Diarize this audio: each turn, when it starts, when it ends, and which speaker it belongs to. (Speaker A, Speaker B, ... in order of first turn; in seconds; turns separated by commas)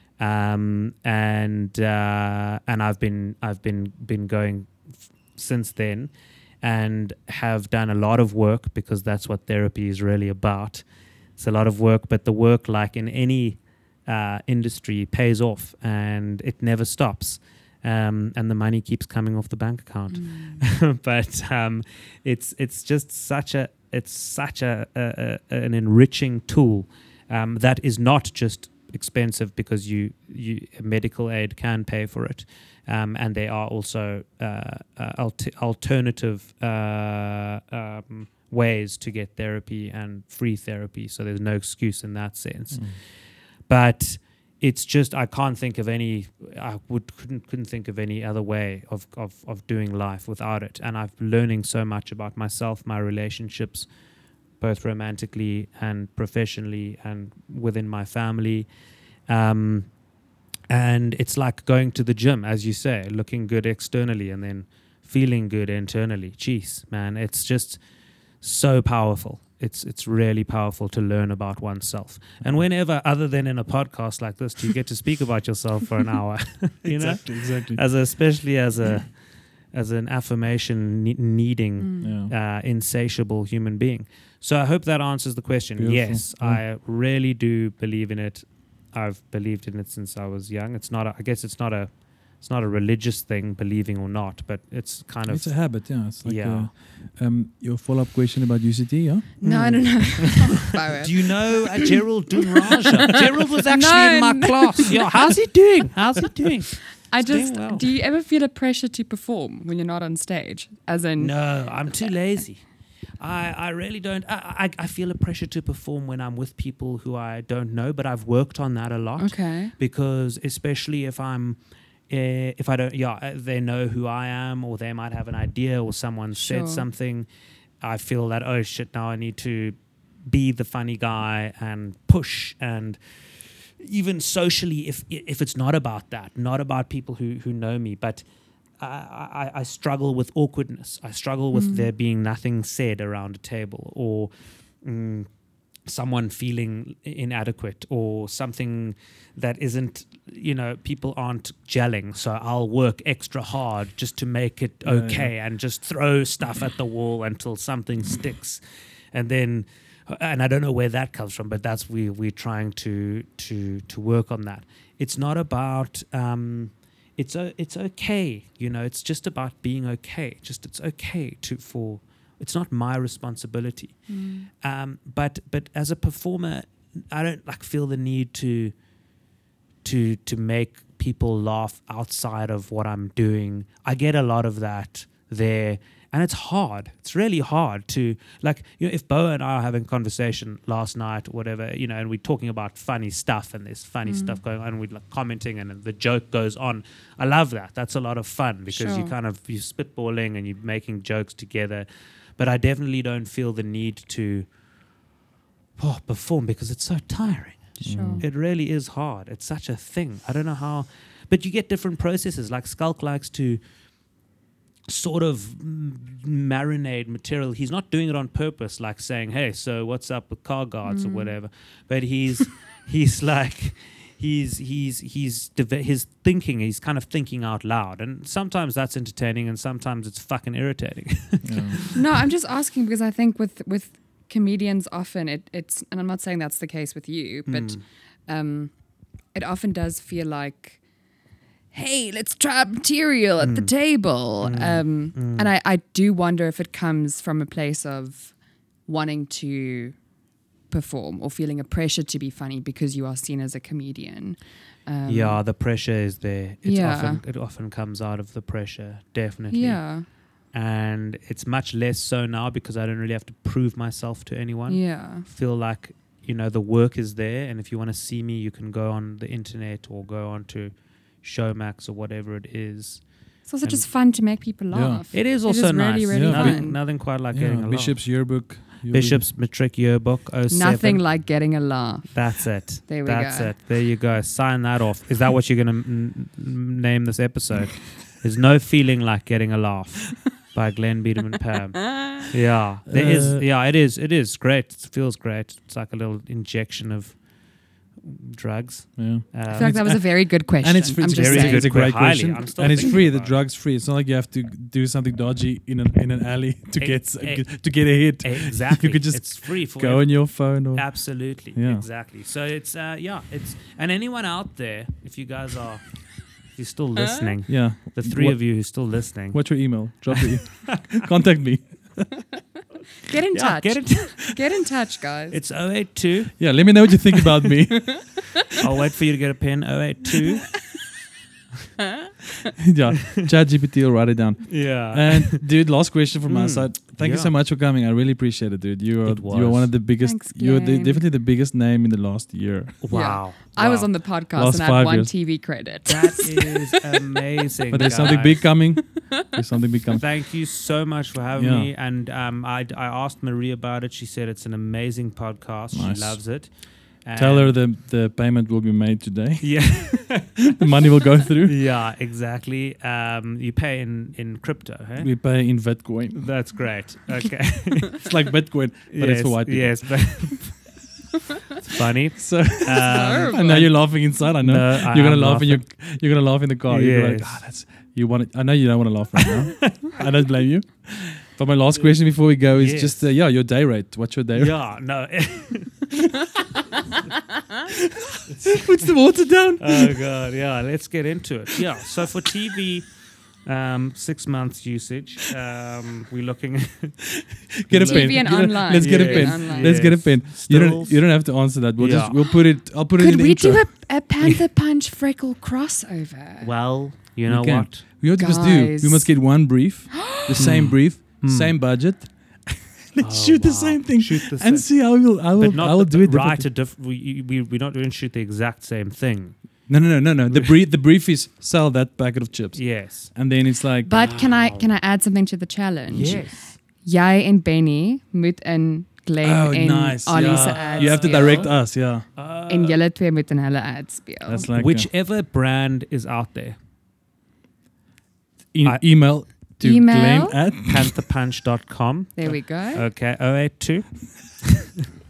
Speaker A: 0.2-4.8, Speaker A: 5.3-53.9, Speaker B: 20.1-20.6, Speaker C: 42.7-43.0, Speaker A: 54.6-58.7, Speaker A: 59.3-60.0, Speaker A: 60.7-67.8, Speaker A: 68.4-96.7, Speaker C: 76.8-77.8, Speaker B: 81.8-82.2, Speaker C: 82.0-82.3, Speaker C: 85.8-86.6, Speaker C: 95.3-99.4, Speaker B: 99.4-102.8, Speaker A: 99.4-107.9, Speaker B: 103.5-105.5, Speaker B: 106.9-112.1, Speaker A: 111.2-112.7, Speaker A: 113.2-127.3, Speaker B: 119.2-119.7, Speaker B: 126.4-126.9, Speaker A: 127.8-138.3, Speaker A: 138.8-145.3, Speaker B: 141.5-141.9, Speaker A: 145.8-158.6, Speaker C: 154.8-155.3, Speaker A: 159.1-174.1, Speaker B: 174.1-174.5, Speaker A: 174.6-178.8, Speaker A: 179.8-204.5, Speaker B: 194.1-194.4, Speaker B: 198.7-199.2, Speaker A: 205.8-213.6, Speaker C: 207.8-208.2, Speaker B: 207.9-208.3, Speaker A: 214.9-232.0, Speaker B: 220.8-221.4, Speaker C: 231.4-231.8, Speaker B: 231.9-238.8, Speaker A: 237.5-237.8, Speaker B: 239.3-240.8, Speaker B: 241.7-250.0, Speaker A: 243.4-243.7, Speaker A: 244.4-245.5, Speaker B: 250.7-255.4, Speaker A: 255.1-273.9, Speaker B: 256.6-257.2, Speaker B: 259.5-260.1, Speaker B: 264.7-265.3, Speaker B: 273.5-276.8, Speaker C: 274.7-275.0, Speaker A: 275.1-281.1, Speaker C: 276.1-279.3, Speaker B: 280.5-283.5, Speaker A: 282.1-300.2, Speaker C: 292.9-293.4, Speaker C: 299.0-299.7, Speaker B: 299.5-301.9, Speaker C: 300.6-311.9, Speaker A: 301.0-303.4, Speaker A: 306.8-320.8, Speaker B: 317.1-317.3, Speaker C: 317.5-322.2, Speaker B: 323.1-325.4, Speaker A: 323.3-324.4, Speaker A: 325.3-326.9, Speaker C: 326.4-328.3, Speaker A: 328.6-330.6, Speaker C: 332.6-343.0, Speaker A: 334.5-335.5, Speaker A: 336.3-337.3, Speaker A: 339.0-339.8, Speaker B: 340.0-341.0, Speaker A: 342.8-343.9, Speaker B: 342.9-347.0, Speaker C: 344.3-345.1, Speaker A: 345.9-348.6, Speaker C: 347.7-350.0, Speaker A: 349.9-357.6, Speaker C: 351.4-351.7, Speaker C: 355.7-356.3, Speaker C: 357.1-361.6, Speaker A: 359.4-360.6, Speaker A: 361.4-365.2, Speaker C: 365.0-366.6, Speaker A: 366.1-368.0, Speaker C: 368.0-370.3, Speaker A: 368.9-370.7, Speaker A: 371.7-375.7, Speaker C: 372.2-384.6, Speaker B: 372.9-373.6, Speaker A: 376.7-377.4, Speaker A: 379.2-379.9, Speaker A: 381.7-383.1, Speaker A: 384.4-385.9, Speaker C: 388.1-390.0, Speaker A: 389.6-397.1, Speaker C: 397.1-403.7, Speaker A: 397.7-401.2, Speaker B: 397.9-400.0, Speaker A: 401.8-402.3, Speaker B: 403.0-406.5, Speaker A: 406.4-407.9, Speaker C: 407.2-416.5, Speaker B: 408.1-409.3, Speaker B: 409.9-410.2, Speaker A: 410.4-411.6, Speaker A: 413.0-419.7, Speaker C: 419.7-423.9, Speaker A: 422.6-423.1, Speaker B: 423.8-431.8, Speaker A: 423.9-424.7, Speaker A: 425.9-426.6, Speaker C: 429.2-432.1, Speaker A: 430.3-432.8, Speaker B: 432.5-434.5, Speaker C: 434.3-434.9, Speaker A: 434.5-436.6, Speaker C: 438.5-440.9, Speaker A: 438.6-439.0, Speaker B: 439.6-440.5, Speaker A: 440.6-444.7, Speaker B: 442.1-442.9